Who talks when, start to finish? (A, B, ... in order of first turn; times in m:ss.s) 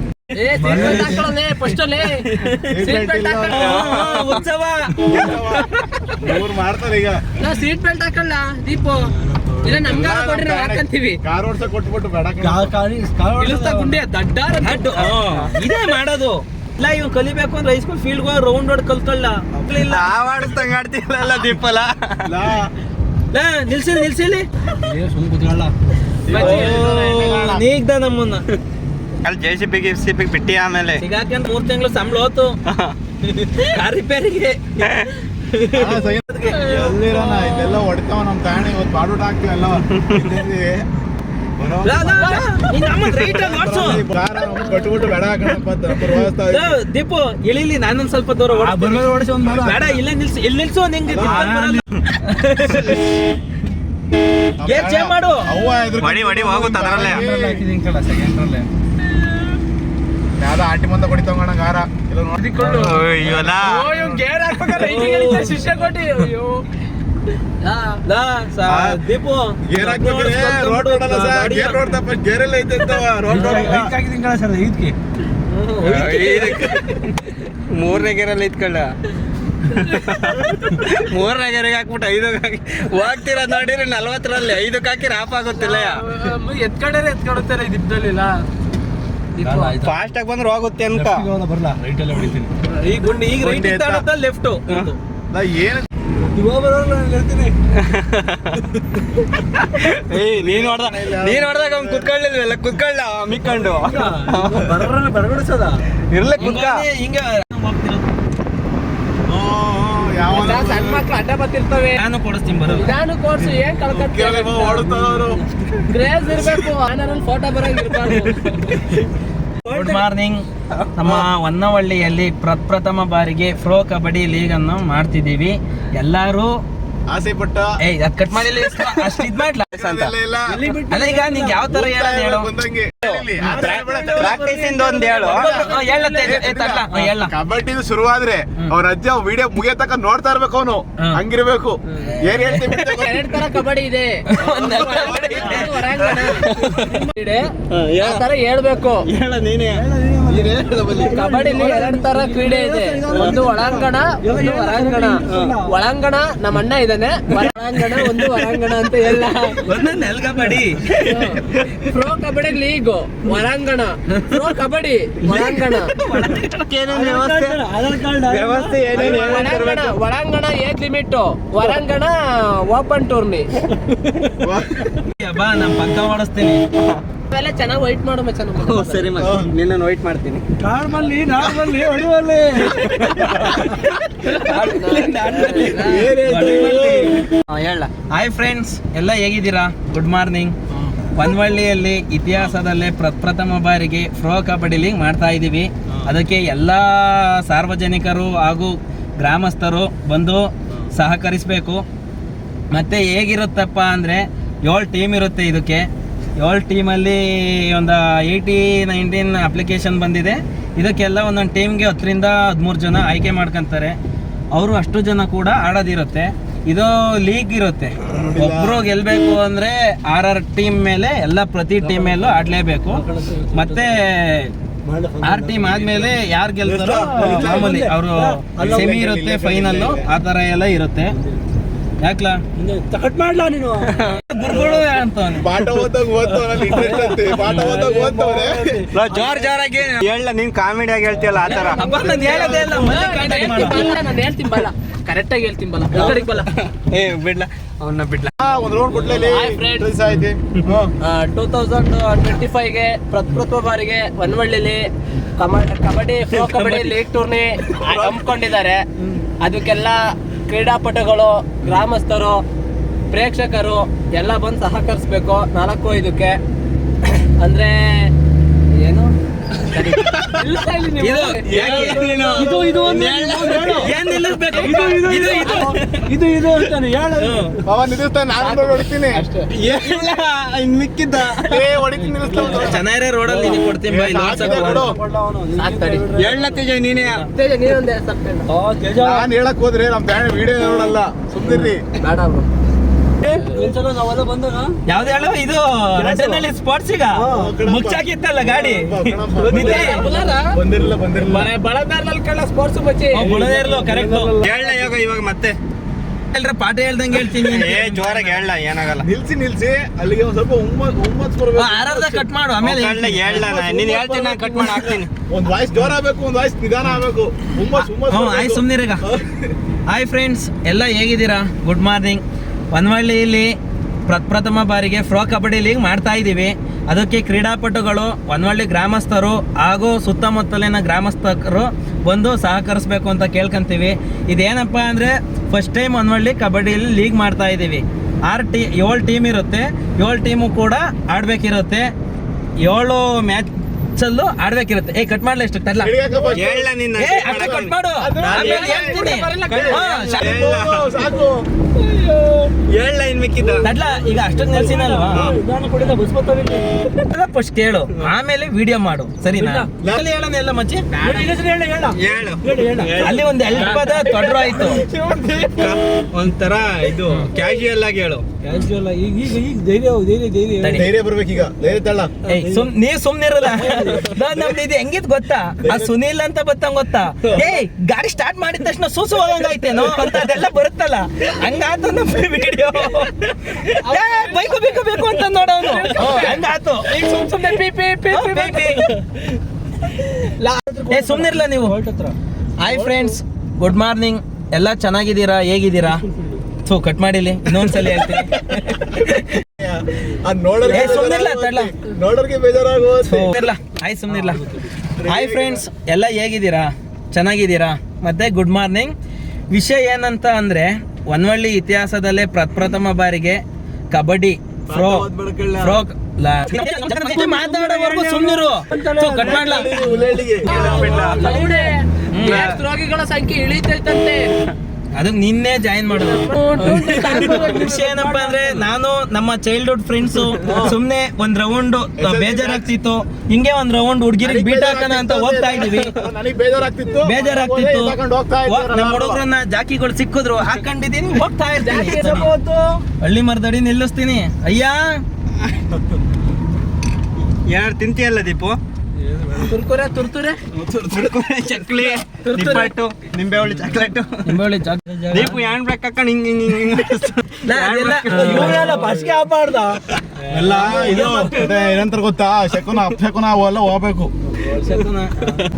0:00.3-0:03.6 A
0:00.6-0:01.3 B
0:00.7-0:01.1 C
0:00.7-0:01.2 D
0:02.3-0:02.7 D
0:02.7-0:03.9 C
0:03.5-0:05.4 E
0:03.5-0:04.4 D
0:05.0-0:07.2 C
0:07.4-0:11.2 A
0:09.2-0:09.9 B
0:09.8-0:12.7 C
0:12.4-0:14.0 B
0:13.4-0:15.4 A
0:14.6-0:20.1 E
0:19.8-0:22.3 D
0:22.2-0:22.7 C
0:23.3-0:24.5 E
0:24.8-0:25.7 B
0:26.2-0:27.6 C
0:26.3-0:27.4 A
0:26.3-0:28.4 E
0:29.2-0:31.0 D
0:31.0-0:32.6 E
0:32.7-0:33.0 D
0:33.3-0:36.0 E
0:35.7-0:40.9 C
0:36.5-0:37.8 A
0:41.6-0:42.4 C
0:41.8-0:44.0 E
0:42.2-0:42.4 A
0:43.1-0:46.8 C
0:46.5-0:49.1 E
0:48.6-0:50.0 C
0:48.9-0:49.6 B
0:49.6-0:53.0 E
0:51.1-0:51.5 C
0:51.3-0:51.8 B
0:54.6-0:57.6 C
0:54.6-0:55.4 E
0:56.0-0:57.2 D
0:57.2-0:58.0 B
0:57.8-0:58.2 E
1:00.4-1:02.6 C
1:02.4-1:06.6 A
1:02.6-1:02.9 B
1:02.7-1:03.8 D
1:04.8-1:05.6 E
1:04.8-1:05.4 B
1:07.6-1:08.0 A
1:08.0-1:11.8 E
1:08.6-1:09.0 C
1:09.6-1:13.9 C
1:13.3-1:14.9 B
1:15.5-1:16.4 E
1:15.8-1:17.1 D
1:17.7-1:18.9 D
1:19.7-1:26.0 D
1:25.6-1:28.4 A
1:29.4-1:29.8 A
1:29.4-1:30.0 B
1:29.8-1:31.3 D
1:30.9-1:32.5 B
1:32.7-1:35.0 E
1:33.4-1:34.0 C
1:35.3-1:35.9 C
1:36.2-1:37.6 B
1:37.8-1:38.6 D
1:39.7-1:44.9 D
1:40.4-1:42.1 C
1:43.5-1:45.8 B
1:46.1-1:46.9 D
1:46.4-1:48.1 E
1:49.3-1:51.0 C
1:50.3-1:52.0 A
1:52.0-1:52.9 E
1:52.6-1:54.9 A
1:53.8-1:55.4 C
1:54.9-1:55.8 B
1:55.9-1:59.0 A
1:59.7-2:00.4 E
2:01.0-2:06.5 E
2:07.1-2:07.8 C
2:07.8-2:09.7 E
2:08.6-2:10.1 D
2:09.7-2:10.6 C
2:10.5-2:11.7 B
2:10.9-2:12.5 E
2:11.6-2:14.4 C
2:13.0-2:17.3 E
2:13.5-2:15.6 D
2:15.1-2:16.4 A
2:16.2-2:23.4 C
2:22.8-2:29.1 A
2:24.3-2:25.9 E
2:25.2-2:25.6 C
2:26.0-2:27.0 D
2:26.6-2:27.1 B
2:27.7-2:28.2 D
2:29.0-2:31.1 D
2:29.8-2:35.7 B
2:30.9-2:39.6 A
2:33.1-2:33.5 D
2:35.2-2:35.6 D
2:37.9-2:38.2 D
2:39.6-2:40.9 E
2:41.0-2:45.9 A
2:45.3-2:46.7 E
2:46.3-2:47.6 D
2:46.9-2:49.3 B
2:48.2-2:49.9 D
2:48.9-2:53.5 A
2:54.4-2:54.9 C
2:55.1-2:56.6 E
2:57.3-2:59.2 A
2:58.6-3:00.4 D
2:59.2-2:59.5 C
3:00.6-3:03.7 B
3:02.7-3:03.5 D
3:02.8-3:03.7 E
3:04.2-3:06.1 A
3:04.2-3:07.1 E
3:05.8-3:07.9 D
3:06.0-3:07.2 B
3:08.1-3:10.5 E
3:11.1-3:21.8 E
3:22.7-3:34.0 E
3:34.5-3:44.5 E
3:38.0-3:38.8 C
3:41.8-3:44.0 B
3:44.8-3:46.2 B
3:45.2-3:51.2 E
3:46.6-3:47.8 C
3:46.9-3:49.0 B
3:48.6-3:50.1 C
3:52.0-3:52.4 E
3:52.6-3:54.8 B
3:54.3-3:55.5 E
3:55.4-3:58.8 C
3:56.2-3:59.7 B
3:58.9-4:01.8 D
4:01.1-4:02.5 B
4:01.5-4:03.9 E
4:01.8-4:06.5 A
4:01.9-4:02.8 C
4:05.9-4:06.2 D
4:06.9-4:08.3 D
4:08.4-4:10.9 C
4:09.2-4:09.9 A
4:11.0-4:18.8 A
4:17.9-4:18.2 C
4:19.4-4:22.4 A
4:23.1-4:26.4 A
4:27.4-4:28.1 A
4:28.8-4:29.1 A
4:29.7-4:32.9 A
4:30.1-4:30.4 D
4:31.0-4:32.0 E
4:31.5-4:33.9 D
4:31.6-4:33.9 B
4:32.3-4:32.8 C
4:33.8-4:35.6 E
4:34.5-4:37.6 B
4:34.5-4:35.7 A
4:35.6-4:35.9 D
4:37.6-4:39.2 C
4:38.4-4:39.5 A
4:39.5-4:41.7 D
4:41.4-4:42.8 C
4:41.9-4:43.6 B
4:42.4-4:44.9 E
4:43.9-4:45.0 C
4:44.3-4:46.7 B
4:45.6-4:46.1 A
4:46.1-4:47.2 D
4:47.1-4:48.5 A
4:48.5-4:49.3 B
4:49.0-4:51.8 C
4:52.0-4:52.5 A
4:53.2-4:54.8 B
4:53.3-4:53.7 A
4:54.9-5:00.0 E
4:56.0-4:56.4 B
4:57.2-4:57.5 B
4:57.3-5:00.0 C
4:59.4-5:00.5 A
4:59.8-5:00.2 B
5:00.5-5:01.5 C
5:01.1-5:03.2 A
5:03.1-5:04.3 E
5:03.2-5:05.0 B
5:04.4-5:05.6 D
5:06.3-5:08.4 E
5:07.3-5:09.0 D
5:09.0-5:12.2 C
5:11.5-5:13.4 E
5:12.6-5:15.1 D
5:13.2-5:19.5 C
5:17.8-5:19.0 E
5:19.9-5:23.5 E
5:24.1-5:41.9 E
5:42.6-5:45.9 E
5:45.8-5:49.0 C
5:46.3-5:47.7 D
5:47.0-5:50.3 E
5:48.2-5:50.0 A
5:49.5-5:51.1 D
5:50.1-5:51.4 C
5:52.0-5:52.3 A
5:52.7-5:53.7 D
5:53.6-5:55.3 E
5:54.2-5:56.9 B
5:55.1-5:55.4 D
5:57.0-6:00.8 E
5:59.4-5:59.6 B
6:00.9-6:01.3 A
6:01.0-6:03.9 B
6:01.9-6:03.2 D
6:03.0-6:04.8 E
6:03.5-6:05.6 A
6:04.6-6:05.7 B
6:05.6-6:08.3 D
6:08.4-6:10.8 B
6:10.6-6:10.8 E
6:10.7-6:12.1 C
6:12.2-6:26.9 E
6:12.3-6:12.7 B
6:13.4-6:14.2 B
6:23.8-6:24.9 A
6:25.5-6:28.8 A
6:26.0-6:26.2 B
6:28.1-6:28.9 E
6:30.4-6:30.7 A
6:30.6-6:32.1 B
6:30.9-6:31.7 E
6:32.6-6:36.0 E
6:32.8-6:33.1 A
6:36.6-6:39.4 E
6:39.6-6:43.4 C
6:40.7-6:41.7 E
6:43.0-6:44.4 E
6:44.1-6:44.6 B
6:45.0-6:45.6 C
6:45.0-6:48.9 E
6:49.5-6:53.4 E
6:53.9-6:59.7 E
6:54.7-6:55.8 C
6:56.6-6:57.3 D
6:56.6-7:01.7 B
6:59.0-7:00.8 C
7:00.4-7:01.2 D
7:00.4-7:04.4 A
7:02.1-7:02.5 E
7:04.9-7:16.0 E
7:05.9-7:07.7 A
7:06.6-7:08.6 B
7:10.4-7:10.7 C
7:12.0-7:12.7 C
7:14.2-7:19.2 C
7:17.0-7:22.3 E
7:21.6-7:22.8 A
7:23.0-7:24.8 E
7:27.4-7:28.6 D
7:29.0-7:29.5 B
7:29.4-7:30.4 A
7:30.6-7:34.4 D
7:32.2-7:32.8 A
7:34.2-7:35.4 E
7:35.1-7:38.8 D
7:37.4-7:39.8 E
7:38.1-7:39.1 B
7:38.3-7:38.6 A
7:40.2-7:41.5 B
7:40.3-7:44.1 C
7:40.5-7:41.3 E
7:44.3-7:45.4 B
7:44.6-7:45.0 E